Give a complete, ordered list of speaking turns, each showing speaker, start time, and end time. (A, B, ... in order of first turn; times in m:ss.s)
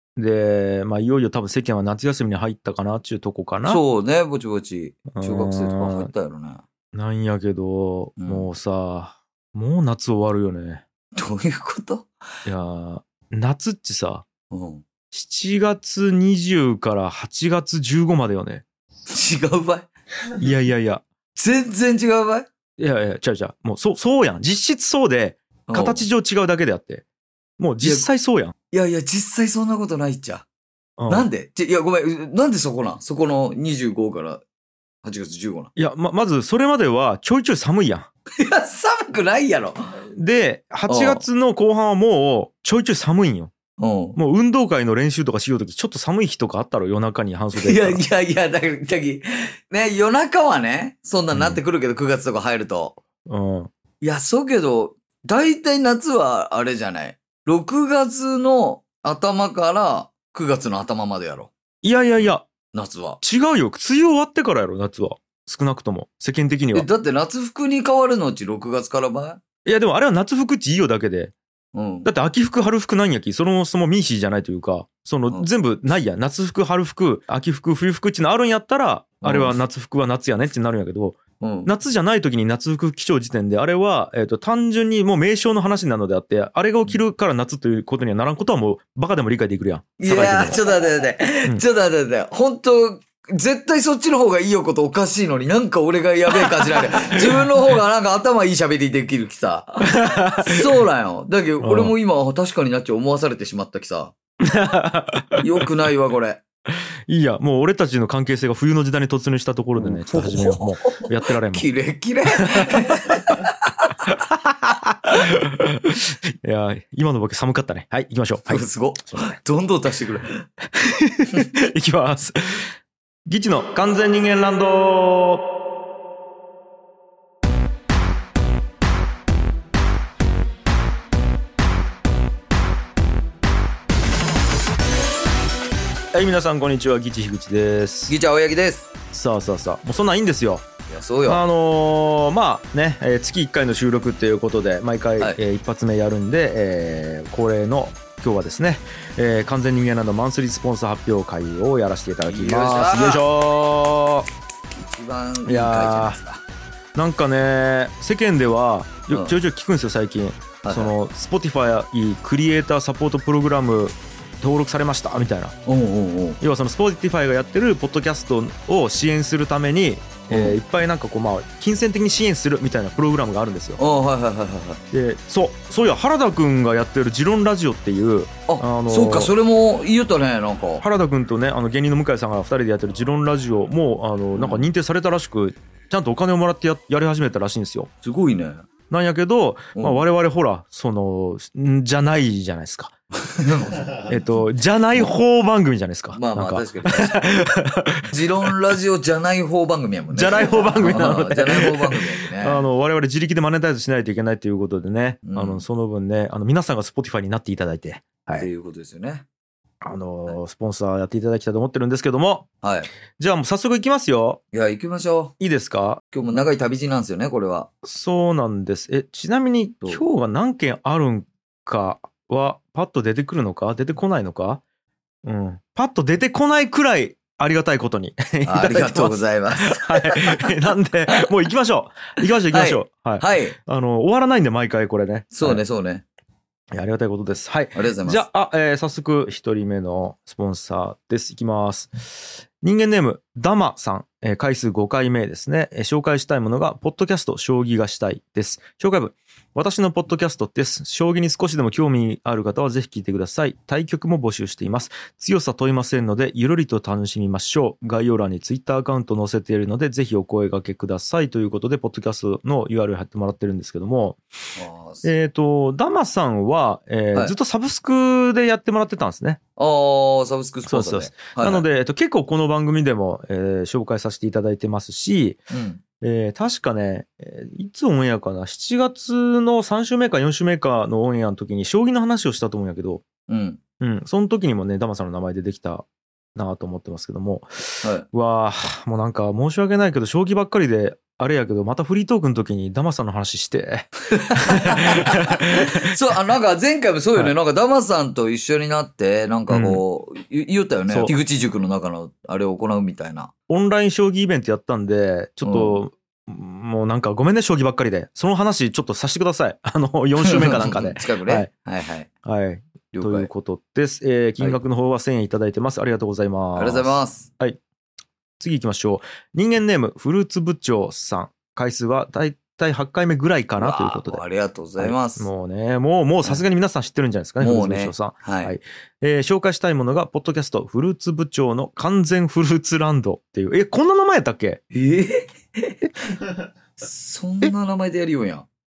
0:00.2-0:03.8 A
0:03.6-0:06.6 B
0:05.1-0:06.1 A
0:06.9-0:10.8 A
0:08.2-0:08.5 B
0:11.1-0:12.1 B
0:12.4-0:14.2 A
0:14.5-0:14.8 B
0:15.1-0:18.6 A
0:19.1-0:19.9 B
0:20.4-0:21.0 A
0:21.3-0:22.5 B
0:22.8-0:27.0 A
0:25.7-0:26.0 B
0:27.6-0:28.5 A
0:27.8-0:28.1 B
0:28.7-0:30.4 B
0:31.0-0:31.3 A
0:31.1-0:34.4 B
0:35.0-0:35.7 B
0:35.8-0:38.1 A
0:38.3-0:40.0 B
0:40.1-0:43.5 A
0:40.9-0:41.2 B
0:43.8-0:44.2 B
0:44.1-0:48.0 A
0:47.5-0:53.0 B
0:51.3-0:51.6 A
0:53.2-0:53.7 A
0:54.0-1:01.5 B
1:01.8-1:02.5 A
1:02.2-1:03.2 B
1:03.2-1:06.9 A
1:06.7-1:09.4 B
1:09.6-1:11.3 A
1:11.7-1:12.1 B
1:12.0-1:30.6 A
1:19.2-1:19.6 B
1:21.4-1:21.7 B
1:30.0-1:44.1 B
1:36.5-1:37.2 A
1:39.9-1:40.6 A
1:41.6-1:41.9 A
1:44.4-1:45.6 A
1:45.4-1:46.4 B
1:47.1-1:51.7 A
1:49.8-1:53.9 B
1:54.0-1:59.4 A
1:58.5-2:00.4 B
2:00.8-2:02.7 A
2:03.2-2:05.4 A
2:16.1-2:18.2 A
2:18.1-2:18.9 B
2:19.1-2:20.6 A
2:20.9-2:21.4 B
2:21.2-2:34.3 A
2:32.2-2:33.2 B
2:34.8-2:36.4 B
2:35.4-2:36.2 A
2:36.9-2:45.5 A
2:39.1-2:39.4 B
2:40.6-2:40.9 B
2:45.6-2:46.4 B
2:46.4-2:53.8 A
2:50.3-2:50.6 B
2:53.8-2:54.8 B
2:54.9-2:59.3 A
2:58.5-3:00.8 B
3:00.8-3:07.9 A
3:04.3-3:04.7 B
3:08.0-3:08.6 B
3:08.9-3:12.9 A
3:09.7-3:10.0 B
3:13.3-3:14.2 B
3:14.1-3:18.1 A
3:16.1-3:17.4 B
3:18.0-3:22.6 B
3:20.1-3:28.5 A
3:25.2-3:25.6 B
3:28.3-3:29.2 B
3:29.8-3:32.5 A
3:32.6-3:32.9 B
3:33.2-3:34.4 A
3:34.5-3:35.3 B
3:35.4-3:36.0 A
3:36.1-3:37.7 B
3:37.8-3:44.6 A
3:45.2-3:55.6 A
3:48.4-3:50.5 B
3:52.5-3:53.6 B
3:55.3-3:56.0 B
3:56.7-4:24.2 A
3:57.7-3:58.2 B
4:24.6-4:25.1 B
4:25.0-4:29.4 A
4:29.6-4:31.6 B
4:30.6-4:35.4 A
4:35.5-4:35.8 B
4:36.0-4:43.0 A
4:43.3-4:43.6 B
4:43.8-4:55.7 A
4:47.8-4:48.1 B
4:54.1-5:03.3 B
4:59.5-4:59.8 A
5:00.9-5:01.1 A
5:03.5-5:11.5 A
5:05.4-5:05.8 B
5:10.2-5:12.1 B
5:12.2-5:17.6 A
5:12.9-5:13.3 B
5:16.6-5:17.3 B
5:18.4-5:24.2 A
5:23.6-5:25.3 B
5:24.8-5:34.6 A
5:27.4-5:28.6 B
5:34.7-5:35.8 B
5:36.8-5:38.5 B